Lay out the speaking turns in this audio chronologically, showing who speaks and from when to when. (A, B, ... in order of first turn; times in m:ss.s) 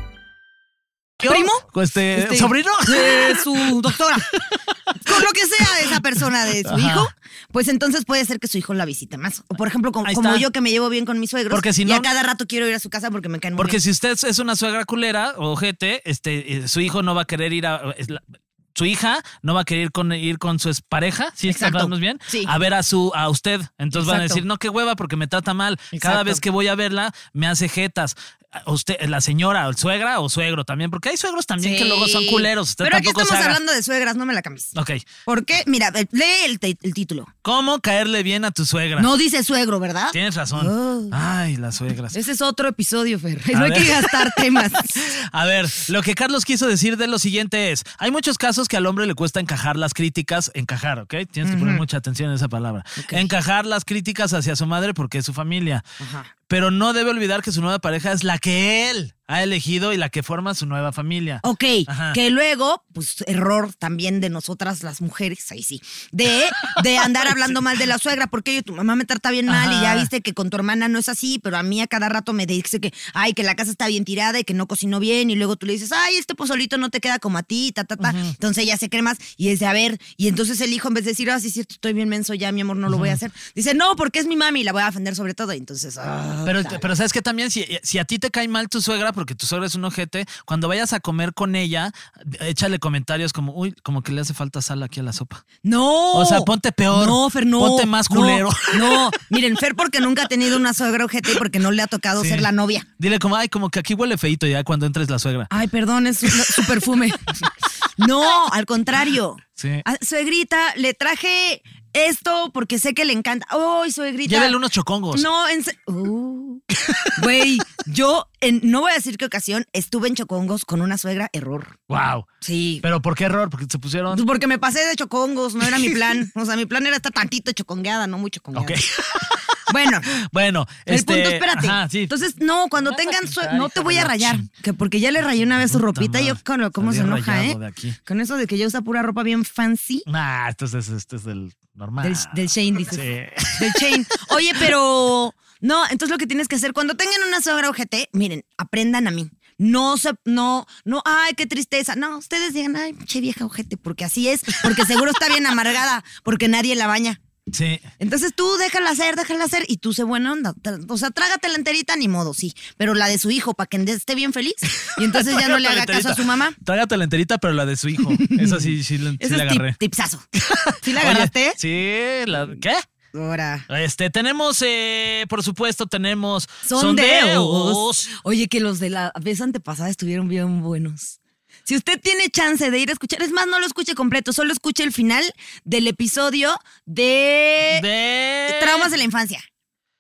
0:01.2-0:06.0 A
0:01.2-0:04.3 B
0:05.0-0:13.8 B
0:06.6-0:07.1 A
0:10.0-0:10.5 A
0:11.5-0:12.1 A
0:13.6-0:33.6 A
0:21.5-0:22.5 B
0:23.9-0:24.4 B
0:25.9-0:26.4 B
0:31.6-0:34.7 B
0:34.8-0:35.1 A
0:35.3-0:37.3 B
0:37.4-0:39.1 A
0:39.0-0:41.2 B
0:40.1-0:42.2 A
0:42.1-0:45.0 B
0:43.5-0:44.4 A
0:45.0-0:55.8 A
0:51.4-0:51.8 B
0:53.0-0:53.3 B
0:56.0-0:56.3 B
0:56.5-1:02.2 A
1:01.4-1:26.8 B
1:06.8-1:07.3 A
1:09.5-1:10.1 A
1:18.0-1:18.4 A
1:22.9-1:23.2 A
1:26.4-1:35.4 A
1:35.6-1:42.9 B
1:36.1-1:39.2 A
1:42.2-1:45.5 A
1:45.5-1:47.3 B
1:46.2-1:46.7 A
1:48.0-1:54.6 B
1:49.6-1:49.8 A
1:54.3-1:55.3 A
1:55.1-2:01.8 B
1:56.8-1:57.2 A
2:01.9-2:02.3 A
2:02.4-2:02.8 B
2:02.8-2:04.2 A
2:04.1-2:08.8 B
2:05.6-2:06.1 A
2:08.6-2:09.6 A
2:09.7-2:10.1 B
2:10.2-2:12.1 A
2:10.9-2:20.1 B
2:12.8-2:14.5 A
2:15.6-2:18.0 A
2:20.1-2:24.7 A
2:22.0-2:23.1 B
2:23.6-2:37.2 B
2:37.5-2:37.9 A
2:38.0-2:46.6 B
2:44.9-2:49.8 A
2:48.2-2:50.2 B
2:50.3-2:52.8 A
2:50.8-2:51.6 B
2:53.1-2:53.7 B
2:53.7-2:58.1 A
2:56.6-3:07.8 B
3:07.7-3:08.9 A
3:08.5-3:09.4 B